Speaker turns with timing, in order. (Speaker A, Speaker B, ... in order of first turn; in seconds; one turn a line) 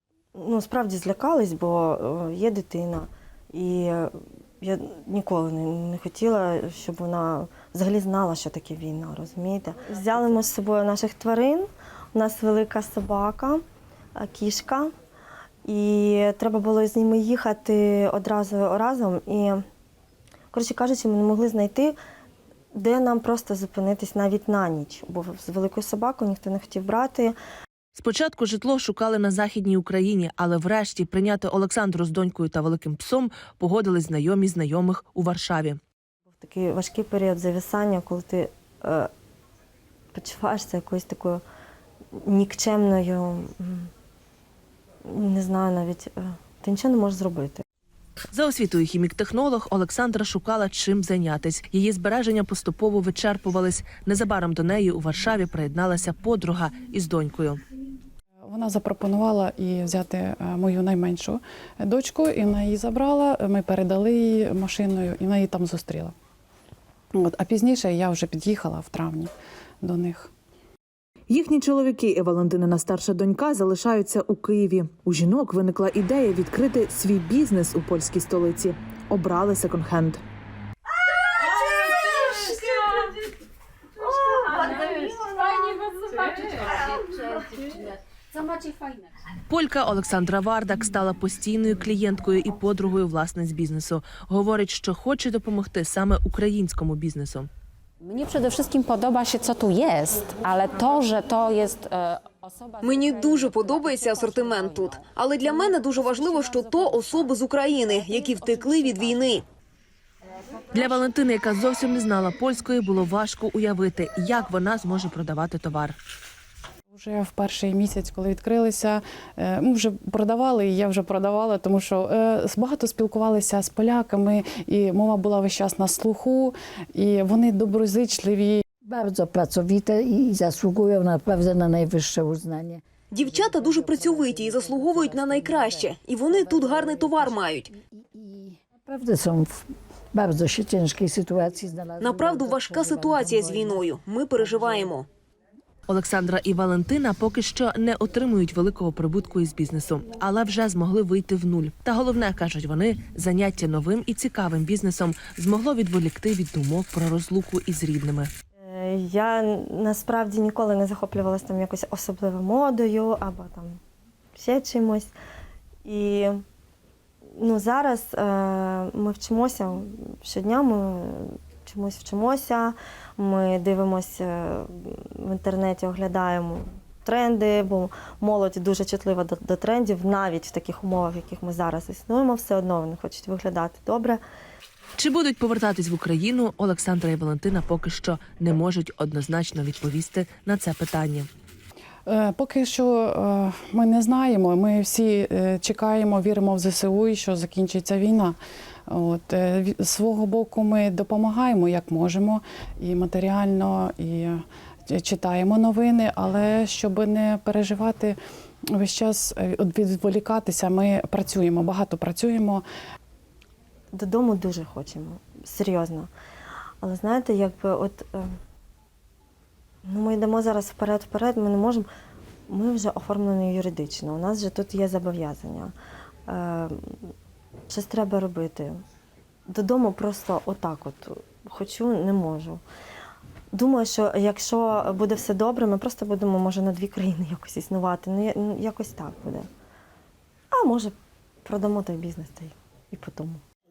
Speaker A: 0.3-13.6
Speaker A: 14.2-14.9
Speaker A: 15.7-19.6
Speaker A: 20.5-22.0
Speaker A: 22.8-27.4
Speaker B: 27.9-35.8
Speaker A: 36.3-39.1
Speaker A: 40.1-41.4
Speaker A: 42.1-43.9
Speaker A: 45.1-47.6
Speaker B: 48.3-57.6
Speaker C: 58.5-66.1
Speaker C: 67.2-69.3
Speaker C: 69.8-70.3
Speaker D: 71.3-80.2
Speaker E: 81.6-83.0
Speaker E: 84.5-87.8
Speaker E: 88.4-88.9
Speaker B: 89.5-97.5
Speaker E: 98.0-107.3
Speaker F: 102.8-109.5
Speaker E: 108.1-109.2
Speaker B: 110.7-116.0
Speaker C: 116.9-128.6
Speaker G: 128.8-137.3
Speaker F: 133.1-137.7
Speaker G: 138.0-143.9
Speaker F: 142.0-145.1
Speaker B: 145.9-158.3
Speaker A: 158.7-163.8
Speaker A: 164.4-165.1
Speaker A: 165.8-166.4
Speaker A: 167.4-184.2
Speaker B: 185.0-191.3
Speaker C: 192.1-198.4
Speaker C: 198.9-208.2
Speaker C: 208.7-212.6
Speaker A: 213.9-216.1
Speaker A: 216.8-218.3
Speaker A: 219.9-221.9
Speaker A: 222.5-225.7
Speaker A: 226.3-227.1
Speaker A: 227.7-228.8
Speaker A: 229.5-232.6
Speaker A: 233.5-239.5
Speaker A: 240.5-240.9
Speaker A: 241.4-243.4